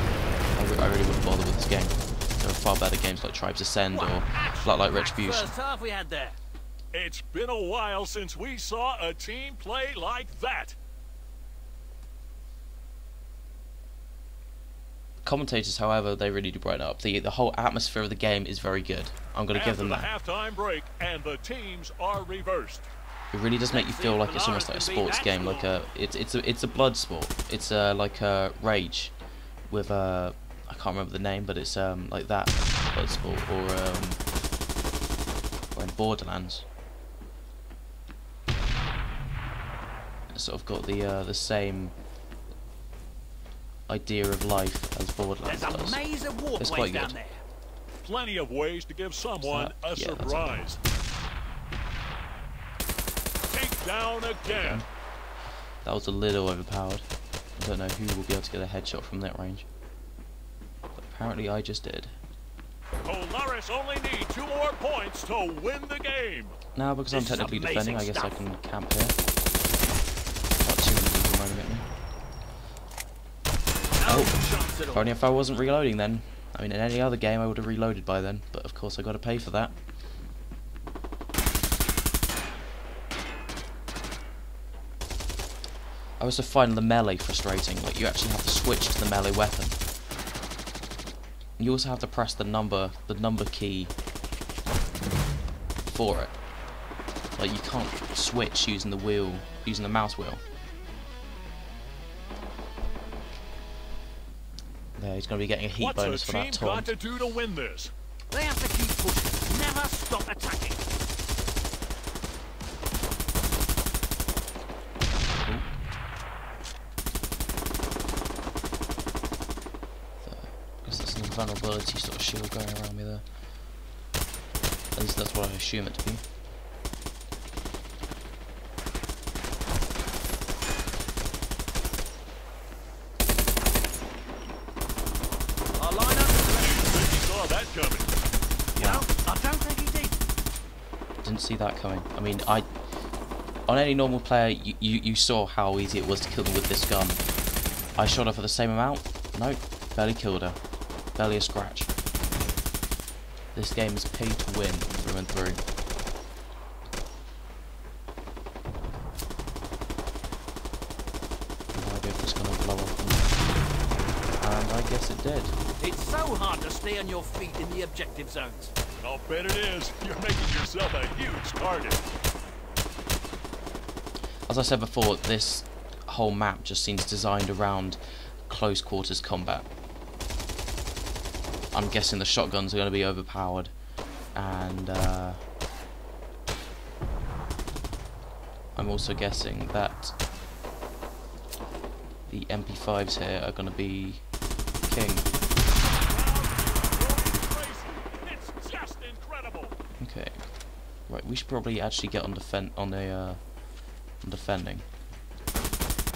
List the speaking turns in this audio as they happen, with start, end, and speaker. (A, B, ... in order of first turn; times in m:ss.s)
0:00.6-0:05.6 A
0:03.9-0:06.4 B
0:06.9-0:10.8 C
0:15.2-0:20.1 A
0:19.5-0:22.9 C
0:23.3-0:29.1 A
0:23.7-0:25.7 B
0:29.7-0:34.2 A
0:35.8-0:36.7 A
0:40.3-0:42.0 A
0:43.9-0:46.0 A
0:45.4-0:47.4 B
0:46.6-0:47.2 A
0:48.0-0:50.8 C
0:49.4-0:50.8 A
0:53.5-0:54.8 C
0:54.5-0:54.9 A
0:55.8-0:57.1 A
0:57.6-0:59.7 A
1:01.0-1:02.2 A
1:03.0-1:06.6 C
1:06.8-1:09.2 A
1:07.1-1:08.4 B
1:10.6-1:11.9 A
1:14.0-1:15.2 B
1:14.0-1:14.3 A
1:14.9-1:19.8 A
1:26.2-1:29.8 A
1:31.6-1:33.9 A
1:35.8-1:36.3 A
1:37.4-1:40.4 A
1:45.0-1:46.9 A
1:45.8-1:47.9 C
1:48.3-1:50.8 B
1:55.3-1:55.7 A
2:00.2-2:03.2 A
2:05.0-2:06.2 A
2:15.8-2:16.8 B
2:16.6-2:18.1 C
2:18.8-2:19.1 A
2:18.8-2:20.2 B
2:21.2-2:22.7 A
2:23.7-2:27.2 A
2:28.0-2:30.6 A
2:31.2-2:31.9 A
2:33.5-2:35.6 A
2:41.7-2:43.6 A
2:44.4-2:45.6 A
2:45.8-2:48.7 B
2:49.0-2:52.1 C
2:54.5-2:59.7 A
3:01.7-3:03.7 A
3:04.4-3:05.4 A
3:08.8-3:10.2 A
3:12.3-3:14.3 A
3:14.8-3:15.3 A
3:15.9-3:19.8 C
3:20.0-3:20.4 A
3:21.1-3:23.4 A
3:24.2-3:24.8 A